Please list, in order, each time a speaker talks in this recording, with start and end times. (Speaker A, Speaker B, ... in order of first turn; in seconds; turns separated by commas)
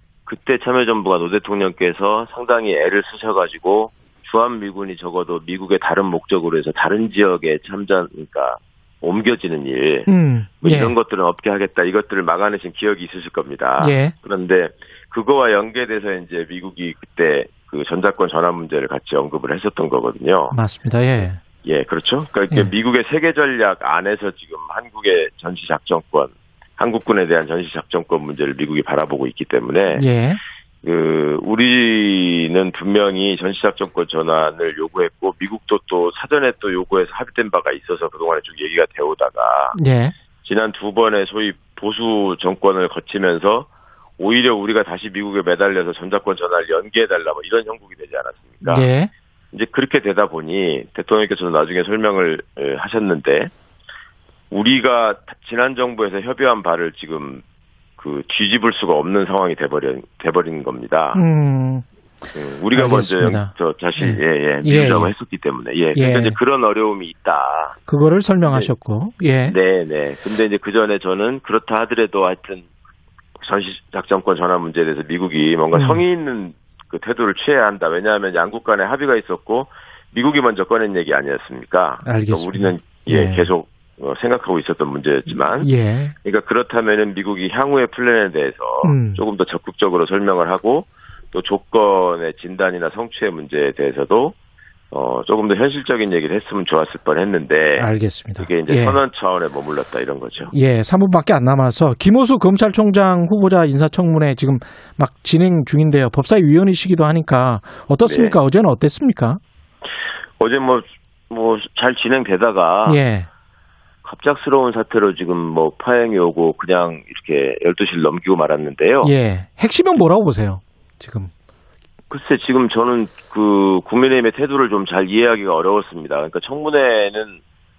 Speaker A: 0.3-10.1, Speaker B: 10.1-10.9, Speaker A: 10.6-20.6, Speaker B: 13.8-14.1, Speaker B: 20.5-21.4, Speaker A: 21.6-30.1, Speaker B: 29.9-30.4, Speaker A: 30.8-39.8, Speaker B: 39.8-40.1, Speaker A: 40.4-48.9, Speaker B: 48.7-49.1, Speaker A: 49.5-53.5, Speaker A: 54.5-57.4, Speaker A: 58.0-61.2, Speaker B: 61.1-61.9, Speaker A: 62.4-67.8, Speaker B: 62.7-65.1, Speaker B: 65.9-66.4, Speaker B: 67.9-69.6, Speaker A: 69.5-72.7, Speaker A: 73.4-85.7, Speaker B: 75.7-76.0, Speaker B: 82.0-83.5, Speaker B: 85.6-86.2, Speaker A: 86.2-94.3, Speaker B: 88.8-89.2, Speaker A: 94.9-97.9, Speaker B: 97.8-99.0, Speaker A: 98.4-100.5, Speaker B: 100.5-109.4, Speaker A: 108.0-108.3, Speaker A: 110.4-113.0, Speaker B: 112.9-113.3, Speaker A: 114.0-119.1, Speaker B: 119.0-121.3, Speaker A: 122.1-127.4